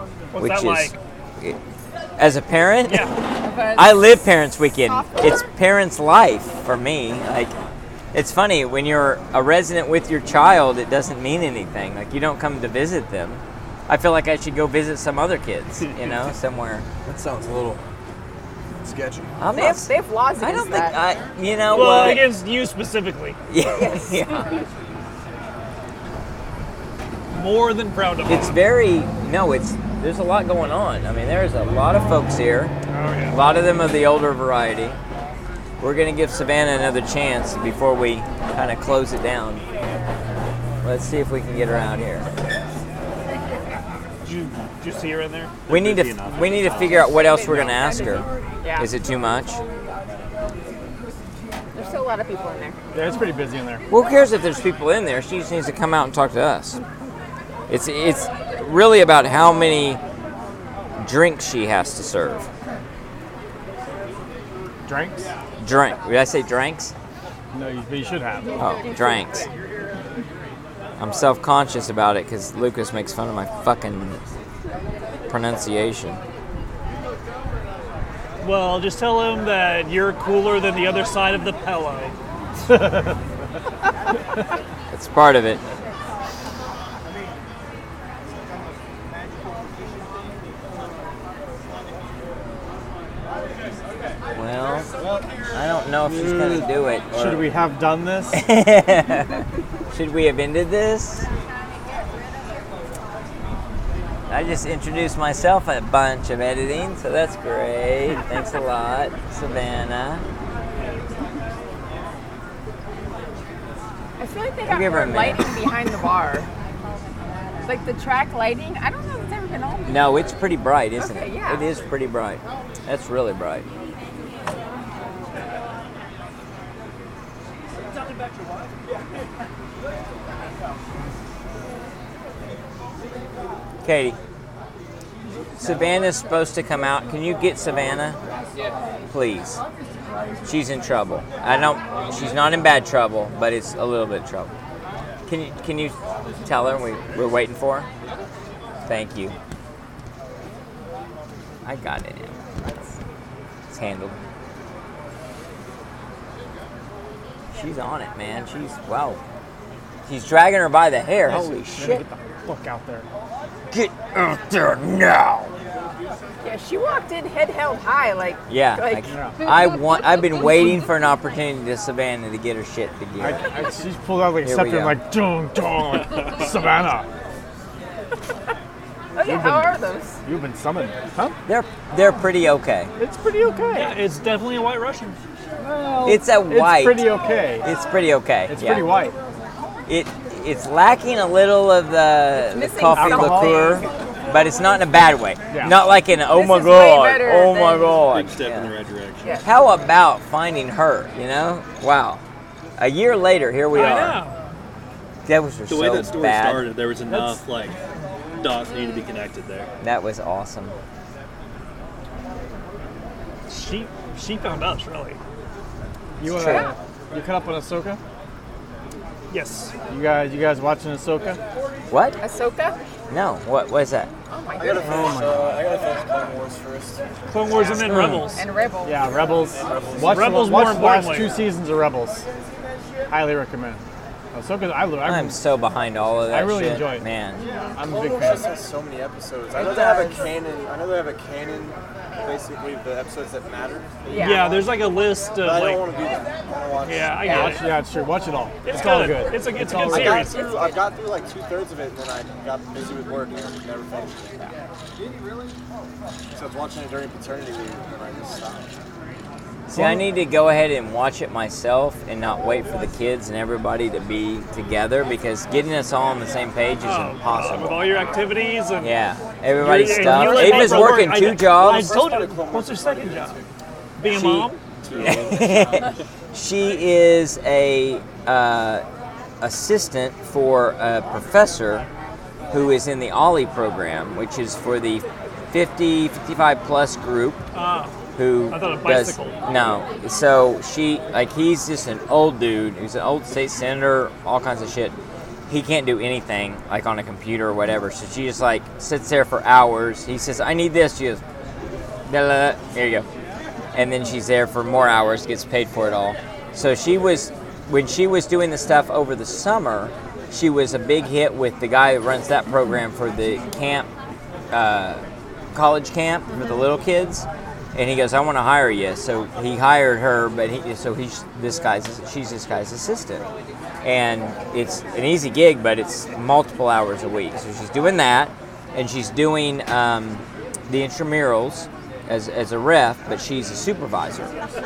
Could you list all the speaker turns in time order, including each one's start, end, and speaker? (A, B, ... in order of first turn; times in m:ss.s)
0:00.3-0:01.0 A
0:00.4-0:01.6 B
0:02.2-0:03.1 B
0:02.8-0:03.2 A
0:03.4-0:04.2 C
0:03.8-0:07.5 B
0:04.8-0:05.4 C
0:08.1-0:16.9 B
0:17.0-0:17.8 D
0:18.8-0:19.3 D
0:19.4-0:22.3 B
0:19.5-0:21.0 C
0:21.7-0:23.4 A
0:23.5-0:24.4 B
0:23.6-0:24.6 C
0:27.3-0:28.6 A
0:28.2-0:32.7 B
0:32.9-0:33.4 A
0:33.3-0:35.0 B
0:35.8-0:39.6 B
0:40.8-0:42.2 B
0:44.2-0:48.0 A
0:45.7-0:49.6 B
0:45.8-0:46.3 E
0:48.6-0:48.9 C
0:51.7-0:52.8 C
0:52.9-0:53.8 F
0:53.9-0:56.8 B
0:57.7-1:00.0 B
1:01.0-1:02.5 B
1:04.8-1:05.3 F
1:05.6-1:06.9 B
1:07.5-1:08.6 F
1:08.6-1:09.5 B
1:08.8-1:09.3 C
1:11.0-1:14.2 B
1:15.3-1:16.2 B
1:18.4-1:22.2 A
1:24.9-1:25.6 B
1:34.3-1:34.9 B
1:35.5-1:37.4 B
1:36.0-1:38.5 F
1:38.3-1:41.3 B
1:44.3-1:50.2 B
1:54.2-1:56.5 C
1:54.7-1:55.4 B
1:57.6-2:00.2 C
1:59.8-2:03.6 B
2:01.0-2:01.7 C
2:13.8-2:14.2 B
2:15.6-2:18.2 B
2:19.1-2:19.6 B
2:20.4-2:24.5 B
2:25.3-2:27.9 B
2:28.8-2:29.4 B
2:31.6-2:32.4 B
2:33.7-2:34.2 B
2:37.5-2:39.2 B
2:40.1-2:42.0 B
2:41.2-2:43.1 F
2:43.7-2:45.5 B
2:46.4-2:50.8 C
2:48.5-2:53.6 B
2:49.1-2:49.4 F
2:53.2-2:57.1 F
2:54.4-2:55.0 B
2:59.1-3:00.2 C
2:59.2-3:01.4 F
3:01.4-3:02.9 B
3:03.0-3:04.0 F
3:03.7-3:05.2 A
3:05.6-3:07.7 F
3:06.0-3:08.9 B
3:08.5-3:09.1 F
3:09.9-3:18.7 B
3:12.5-3:13.8 C
3:12.9-3:13.8 F
3:15.5-3:15.8 F
3:16.2-3:18.0 C
3:18.1-3:19.4 E
3:19.2-3:19.5 C
3:19.4-3:22.2 B
3:22.8-3:24.2 B
3:23.7-3:24.4 A
3:25.2-3:26.7 B
3:25.7-3:27.8 E
3:27.1-3:27.4 F
3:28.4-3:29.7 E
3:29.8-3:30.7 B
3:33.5-3:35.2 A
3:36.2-3:38.0 F
3:36.2-3:36.7 B
3:39.3-3:39.7 A
3:39.9-3:41.4 F
3:41.9-3:42.2 B
3:42.2-3:42.8 C
3:43.1-3:44.1 B
3:44.3-3:45.2 C
3:44.6-3:47.0 D
3:44.8-3:45.7 F
3:47.3-3:48.4 A
3:47.7-3:48.3 B
3:48.3-3:49.2 C
3:48.8-3:52.2 F
3:49.6-3:50.5 D
3:50.0-3:51.4 A
3:53.1-3:53.8 F
3:54.3-3:55.4 F
3:55.0-3:57.4 B
3:56.3-3:57.1 F
3:57.8-3:58.5 F
3:57.8-4:04.7 D
3:59.5-4:00.3 C
4:04.1-4:04.5 C
4:04.2-4:05.8 A
4:05.4-4:07.4 D
4:06.8-4:07.7 A
4:07.2-4:10.3 F
4:07.2-4:07.5 C
4:08.6-4:10.6 A
4:09.8-4:14.5 D
4:10.1-4:10.8 C
4:16.3-4:18.7 D
4:19.7-4:28.0 B
4:19.7-4:20.0 F
4:26.8-4:28.9 A
4:28.8-4:32.0 B
4:29.6-4:33.4 A
4:31.3-4:33.5 D
4:34.0-4:34.6 A
4:34.8-4:35.9 D
4:35.0-4:38.8 B
4:39.4-4:41.8 B
4:42.5-4:47.4 B
4:47.5-4:47.9 A
4:48.2-4:55.0 B
4:48.5-4:49.4 A
4:55.5-5:01.2 B
5:02.0-5:03.0 B
5:03.7-5:13.9 B
5:14.5-5:23.2 B
5:23.8-5:34.3 B